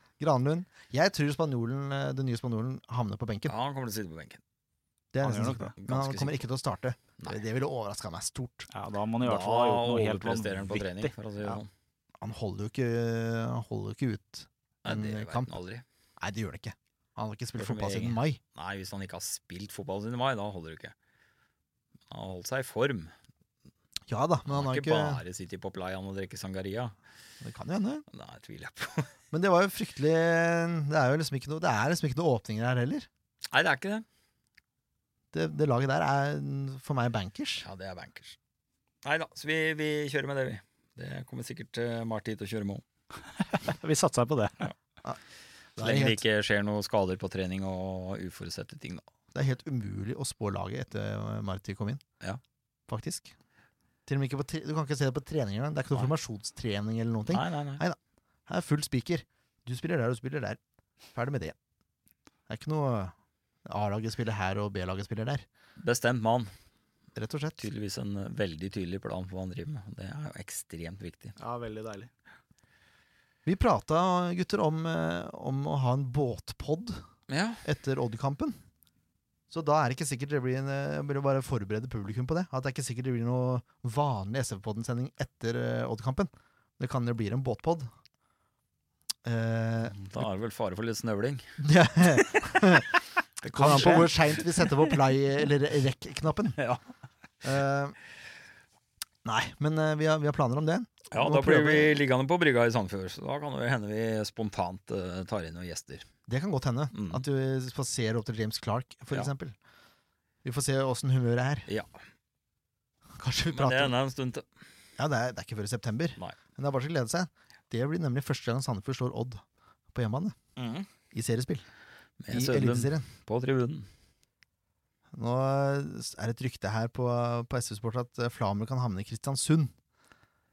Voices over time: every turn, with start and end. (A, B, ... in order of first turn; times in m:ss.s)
0:00.2-0:03.5 A
0:03.4-0:04.4 B
0:05.1-0:08.7 A
0:05.2-0:05.7 C
0:05.8-0:06.4 B
0:08.7-0:11.1 C
0:09.2-0:11.7 B
0:12.2-0:15.5 A
0:14.8-0:15.8 B
0:16.2-0:18.4 A
0:17.6-0:20.9 B
0:22.1-0:23.1 B
0:24.1-0:25.2 A
0:24.5-0:26.9 B
0:27.4-0:28.0 A
0:28.1-0:29.1 B
0:29.3-0:33.1 A
0:33.5-0:34.0 B
0:35.3-0:37.6 A
0:37.6-0:38.4 B
0:39.0-0:42.8 B
0:43.5-0:44.6 C
0:45.8-0:46.2 A
0:45.8-0:49.0 B
0:49.3-0:52.0 A
0:52.9-0:53.3 A
0:54.1-1:00.6 A
0:57.3-0:57.8 B
1:01.1-1:01.5 A
1:02.5-1:03.1 A
1:03.6-1:05.4 A
1:05.8-1:06.5 B
1:07.1-1:07.6 A
1:07.6-1:11.4 B
1:11.4-1:12.1 C
1:13.4-1:17.0 A
1:17.3-1:17.6 B
1:17.6-1:18.6 A
1:19.5-1:27.9 A
1:29.2-1:30.0 A
1:29.9-1:31.6 B
1:31.6-1:32.9 A
1:32.2-1:32.4 B
1:33.4-1:34.7 B
1:33.5-1:36.6 A
1:33.6-1:34.1 C
1:36.6-1:36.8 B
1:37.4-1:38.0 A
1:39.2-1:42.0 A
1:41.1-1:46.0 B
1:46.3-1:49.5 A
1:46.9-1:47.2 B
1:50.4-1:51.7 A
1:53.2-1:53.9 A
1:53.5-1:54.4 B
1:55.0-1:59.4 A
1:59.9-2:00.3 A
2:00.6-2:00.9 B
2:01.1-2:01.6 A
2:02.2-2:03.9 B
2:02.3-2:03.1 A
2:05.1-2:09.7 A